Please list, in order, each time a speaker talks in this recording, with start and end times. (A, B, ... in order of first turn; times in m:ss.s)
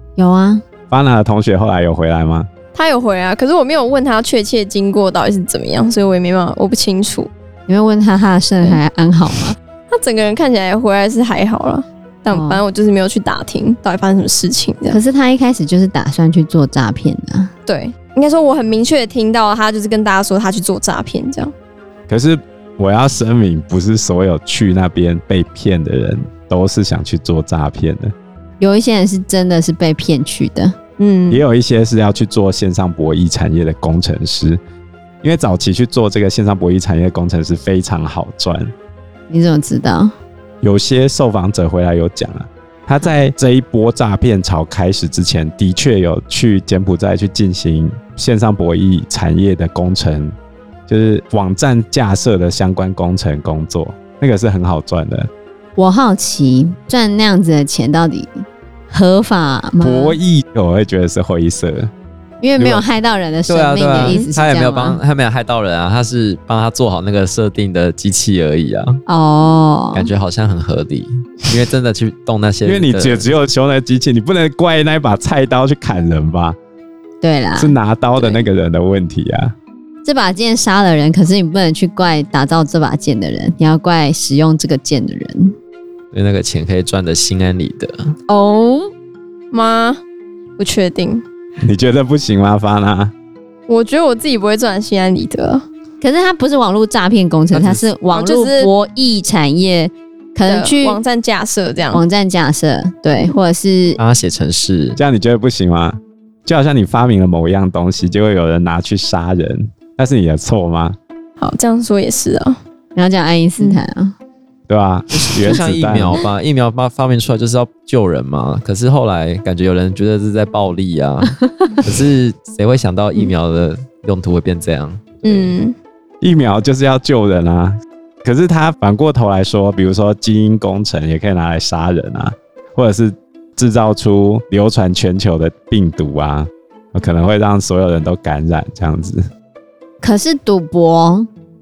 0:00.2-0:00.6 A
0:00.9-0:02.5 B
0:02.7-0:07.3 C
0:07.7-0:09.6 A
0:09.9-0:15.0 C
0:12.3-0:12.6 A
0:14.9-0:17.5 A
0:17.7-0:21.5 C
0:22.1-0:28.1 B
0:28.6-0:30.8 A
0:31.0-0:31.4 C
0:31.3-0:34.6 B
0:35.2-0:38.7 B
0:39.3-0:40.1 A
0:40.6-0:50.3 B
0:50.9-0:55.3 B
0:55.8-1:00.2 A
0:59.8-1:01.9 B
1:02.4-1:05.0 A
1:02.6-1:02.9 B
1:03.5-1:09.0 D
1:09.1-1:10.1 A
1:10.0-1:13.3 D
1:12.6-1:16.6 B
1:17.2-1:18.5 A
1:17.6-1:19.6 B
1:20.0-1:25.6 A
1:26.1-1:28.1 D
1:28.3-1:28.9 A
1:29.5-1:30.0 C
1:30.6-1:31.2 C
1:31.6-1:33.1 B
1:33.7-1:35.6 C
1:36.0-1:41.0 A
1:37.5-1:37.8 D
1:38.1-1:38.7 C
1:40.5-1:42.0 C
1:41.9-1:44.0 A
1:44.0-1:45.0 D
1:45.0-1:51.0 B
1:51.4-1:52.6 C
1:53.0-1:54.1 A
1:54.7-1:56.2 B
1:55.1-2:05.6 D
2:01.4-2:01.7 A
2:05.2-2:05.8 C
2:06.2-2:19.2 B
2:20.0-2:21.3 A